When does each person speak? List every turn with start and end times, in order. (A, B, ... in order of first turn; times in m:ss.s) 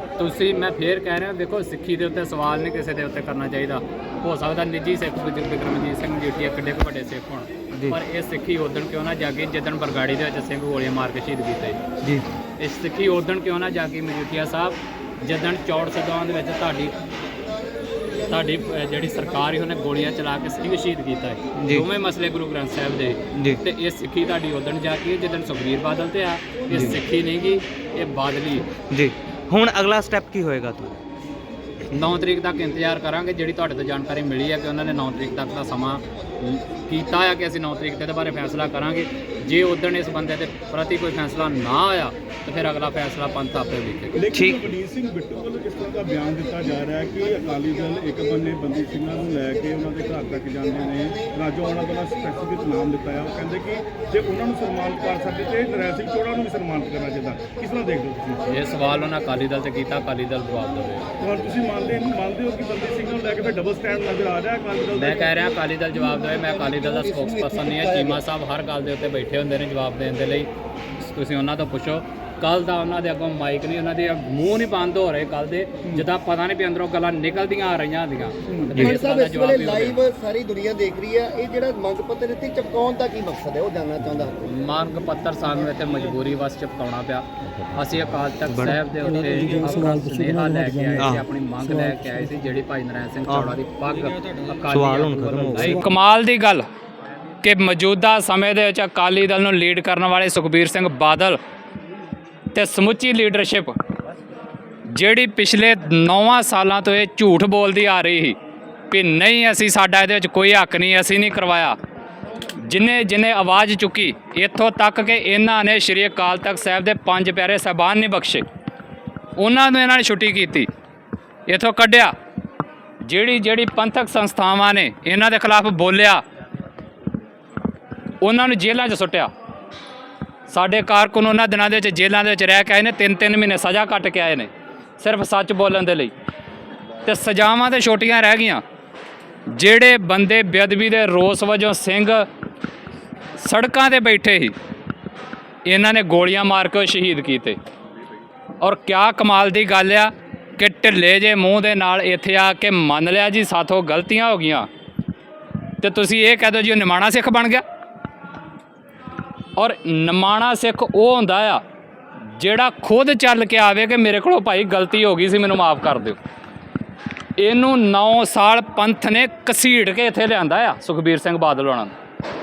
0:00.2-0:11.8 A
0:12.6-0:16.9 A
0:18.2-0:28.7 A
0:21.6-0:21.8 B
0:23.3-0:23.6 B
0:28.9-0:31.0 B
0:31.9-0:44.2 A
0:44.1-0:58.4 C
0:44.3-0:44.6 B
0:58.5-1:01.1 A
1:01.2-1:05.3 C
1:04.9-1:20.0 A
1:06.0-1:08.2 D
1:18.7-1:24.5 D
1:24.4-1:36.7 A
1:28.5-1:28.8 B
1:31.0-1:31.2 B
1:33.3-1:33.6 B
1:34.7-1:35.8 B
1:37.4-1:41.4 A
1:42.5-1:43.8 A
1:44.9-1:48.4 A
1:48.9-1:51.8 A
1:52.5-1:58.4 A
1:59.4-2:00.7 A
2:01.5-2:02.1 A
2:03.0-2:06.2 A
2:08.2-2:09.3 A
2:10.5-2:16.1 A
2:17.0-2:18.6 A
2:19.5-2:22.2 A
2:23.4-2:24.6 A
2:25.6-2:27.6 A
2:28.6-2:34.7 A
2:35.8-2:37.6 A
2:39.6-2:41.6 A
2:42.3-2:46.2 A
2:47.4-2:51.9 A